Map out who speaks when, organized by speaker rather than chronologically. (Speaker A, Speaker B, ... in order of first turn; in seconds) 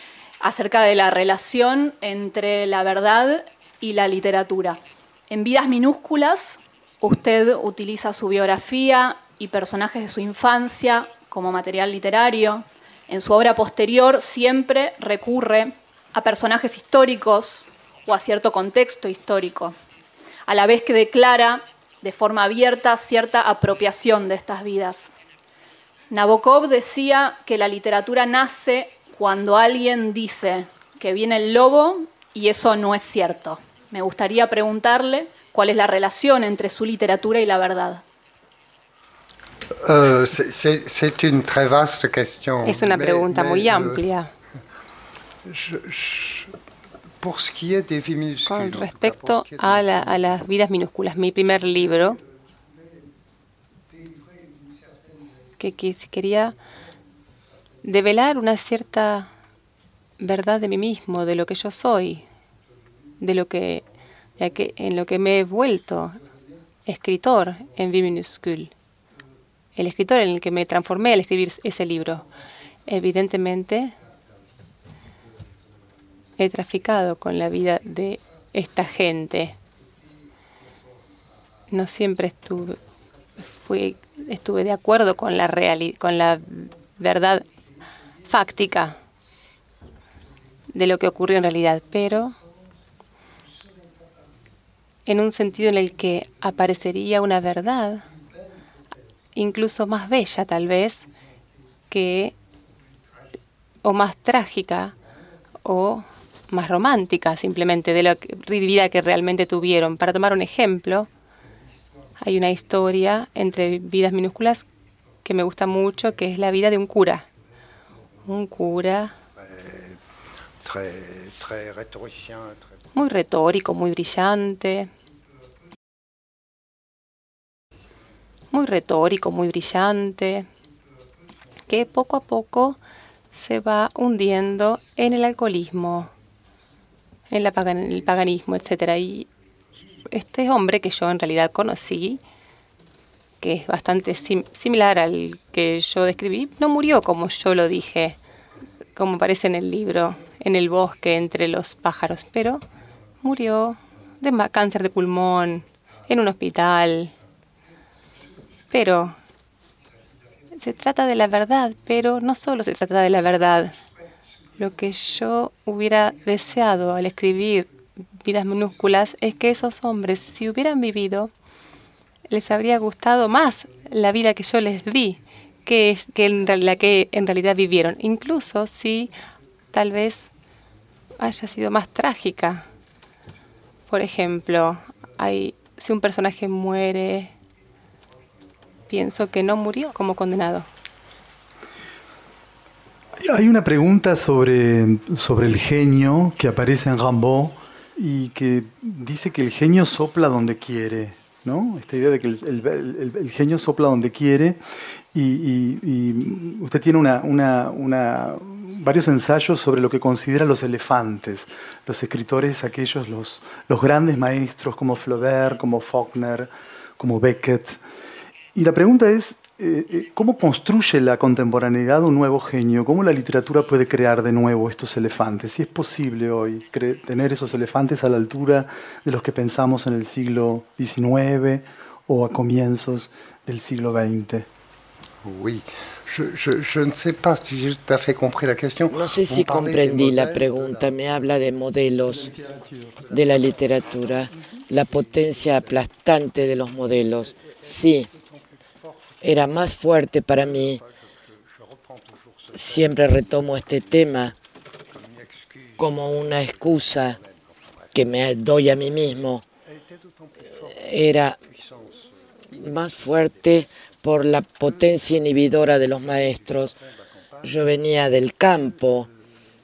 Speaker A: 0.4-19.8, 20.5-25.1, 26.1-38.0
Speaker B: 39.8-44.0, 45.4-46.5, 47.2-50.4, 119.4-120.0, 120.6-122.7, 235.2-240.9, 242.1-243.9, 244.9-245.9, 247.2-249.4, 250.3-253.9, 254.9-258.0, 259.6-263.5, 266.0-267.7
Speaker C: 42.6-44.3, 48.5-52.2, 55.6-56.5, 57.8-59.3, 60.2-62.2, 63.2-63.9, 64.4-66.2, 66.9-68.7, 69.8-72.3, 72.9-73.9, 76.4-79.5, 81.7-82.8, 83.5-87.5, 88.3-89.0, 90.7-92.4, 95.1-98.0, 99.4-101.0, 101.9-102.3, 103.8-104.9, 105.7-111.1, 112.2-114.7, 115.2-117.2, 118.2-119.2, 123.0-124.9, 128.5-130.5, 131.7-132.8, 133.3-136.1, 137.3-139.3, 140.1-142.2, 143.4-148.2, 148.9-152.7, 153.2-157.1, 158.7-159.2, 160.6-163.8, 164.6-171.3, 172.3-179.1, 179.7-180.3, 181.2-182.7, 183.9-187.3, 188.9-190.7
Speaker D: 193.2-204.6, 205.1-217.8, 218.5-234.5
Speaker E: 238.9-242.3, 243.1-248.1, 249.2-250.8, 252.5-254.3, 255.8-257.2, 257.9-259.5, 260.7-261.4, 262.6-266.7, 267.4-269.1